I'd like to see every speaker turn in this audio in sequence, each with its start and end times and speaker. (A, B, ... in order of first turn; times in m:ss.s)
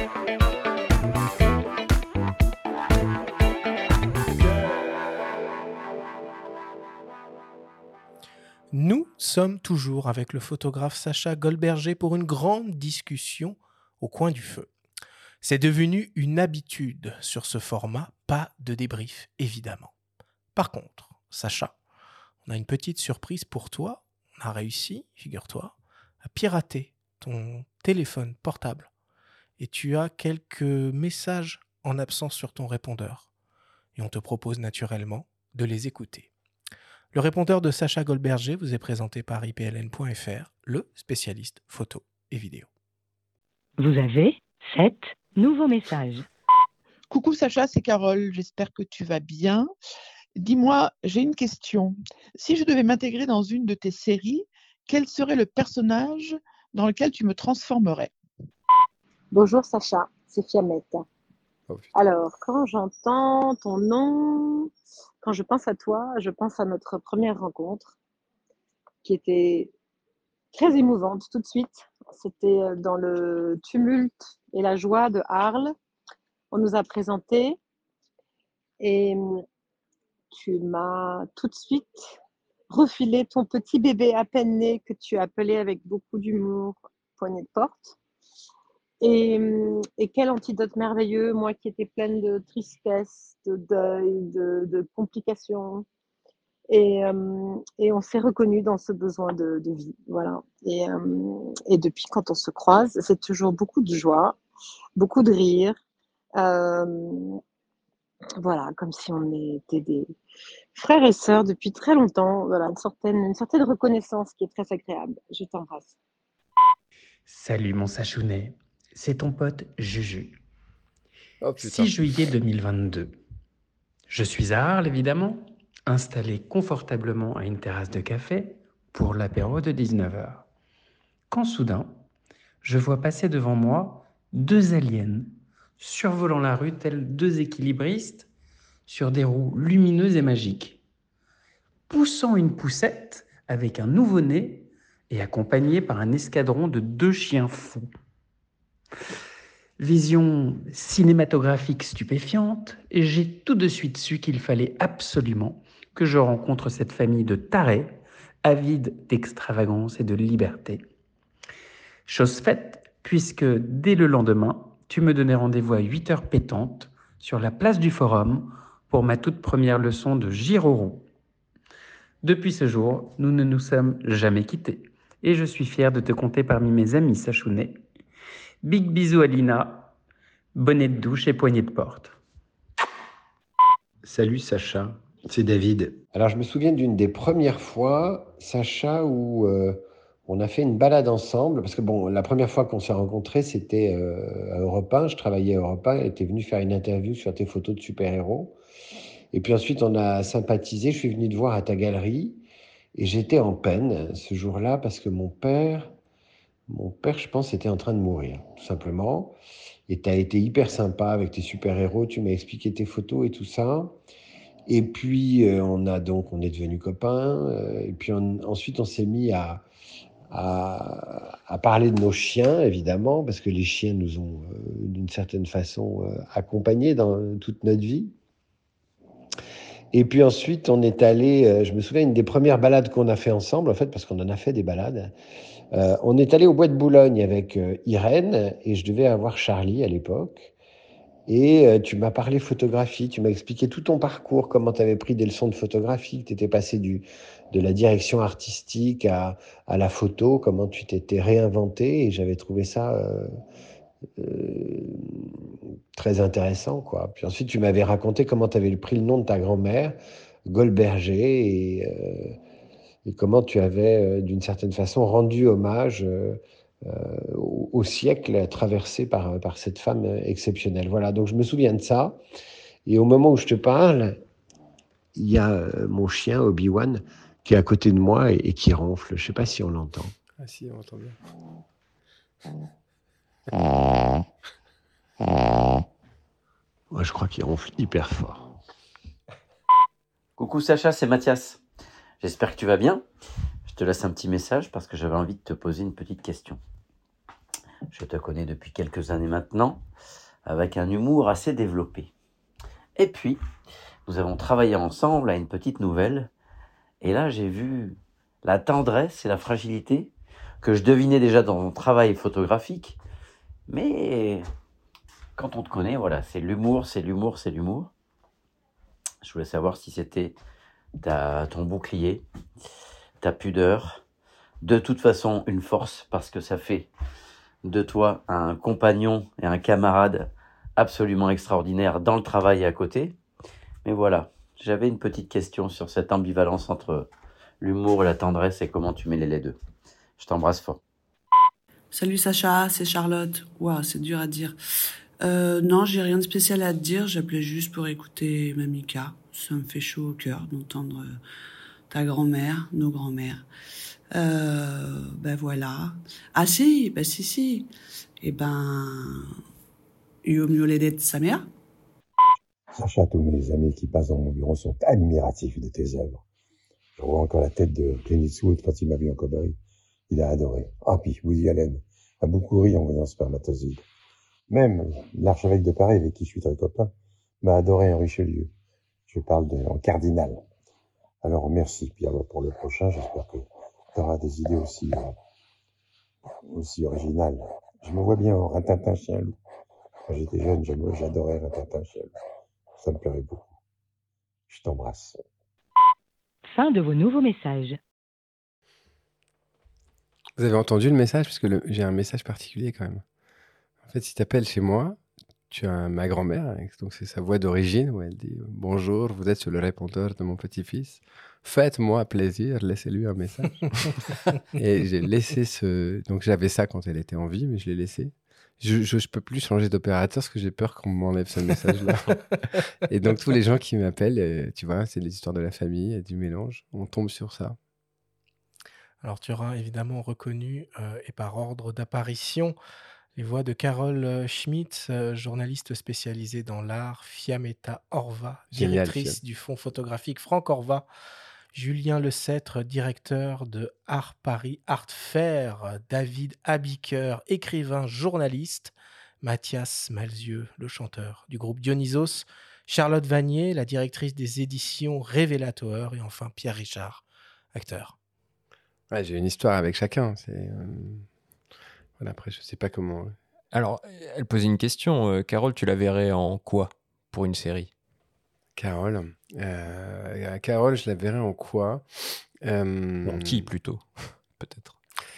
0:08.7-0:14.7 A
0:15.4-0:19.9 A
0:20.5-0:21.7 A
0:22.4-0:28.9 A
0:29.6-0:33.3 A
0:34.0-0:36.3 A
0:37.1-0:42.7 A
0:43.8-0:46.2 B
0:47.1-0:49.7 C
0:50.4-0:58.1 C
0:59.3-1:01.0 D
1:01.7-1:01.9 E
1:02.0-1:04.7 D
1:05.2-1:07.9 D
1:09.0-1:09.7 D
1:10.5-1:15.7 D
1:16.5-1:17.6 D
1:18.8-1:19.2 D
1:20.3-1:22.0 D
1:22.7-1:28.0 D
1:29.0-1:35.8 D
1:36.7-1:44.4 D
1:45.0-1:45.8 D
1:46.4-1:47.4 D
1:48.4-1:50.1 D
1:50.7-1:55.9 D
1:57.3-2:00.4 F
2:01.4-2:01.9 E
2:01.6-2:03.2 F
2:04.1-2:10.5 F
2:11.3-2:12.0 F
2:12.6-2:18.3 F
2:18.9-2:20.8 F
2:21.9-2:27.9 F
2:29.8-2:40.8 F
2:42.1-2:51.1 F
2:52.2-2:57.8 F
2:58.6-2:59.9 F
3:00.5-3:02.2 F
3:04.0-3:18.5 G
3:19.3-3:22.4 G
3:22.9-3:25.9 G
3:26.7-3:29.3 G
3:29.9-3:33.9 G
3:34.7-3:39.6 G
3:40.3-3:48.1 G
3:49.9-3:55.1 G
3:55.8-4:00.5 G
4:01.3-4:13.3 G
4:14.2-4:15.2 G
4:15.9-4:20.0 G
4:20.5-4:22.3 G
4:23.1-4:32.2 G
4:32.8-4:34.2 G
4:35.2-4:40.1 G
4:40.4-4:41.2 E
4:46.9-4:48.5 G
4:50.4-4:51.6 H
4:52.2-4:53.0 H
4:53.7-4:56.6 H
4:57.9-4:59.8 H
5:00.4-5:02.1 H
5:03.0-5:03.4 H
5:04.1-5:06.3 H
5:07.0-5:10.1 H
5:10.6-5:13.0 H
5:13.7-5:14.4 H
5:15.4-5:17.9 H
5:19.2-5:20.3 H
5:21.0-5:22.2 H
5:23.2-5:24.0 H
5:24.6-5:26.9 H
5:27.6-5:33.1 H
5:33.8-5:37.1 H
5:37.6-5:39.6 H
5:40.2-5:40.8 H
5:41.9-5:44.6 I
5:45.2-5:51.2 I
5:51.9-5:53.4 I
5:54.1-5:57.7 I
5:58.2-5:59.3 I
6:00.2-6:01.5 I
6:02.7-6:06.2 J
6:07.0-6:09.6 J
6:10.1-6:13.8 J
6:14.5-6:16.9 J
6:17.4-6:18.5 J
6:19.1-6:20.4 J
6:21.2-6:25.1 J
6:26.5-6:29.4 J
6:30.1-6:32.1 J
6:32.8-6:33.4 J
6:34.5-6:35.2 J
6:36.5-6:37.8 B
6:40.4-6:43.0 E
6:43.8-6:45.0 E
6:45.5-6:54.0 E
6:54.5-7:02.0 E
7:02.9-7:07.6 E
7:09.0-7:12.6 A
7:13.1-7:20.9 A
7:18.5-7:19.2 E
7:21.5-7:38.0 A
7:38.9-7:41.0 E
7:42.0-7:43.1 E
7:43.5-7:47.7 K
7:48.6-7:53.5 E
7:53.0-7:54.8 K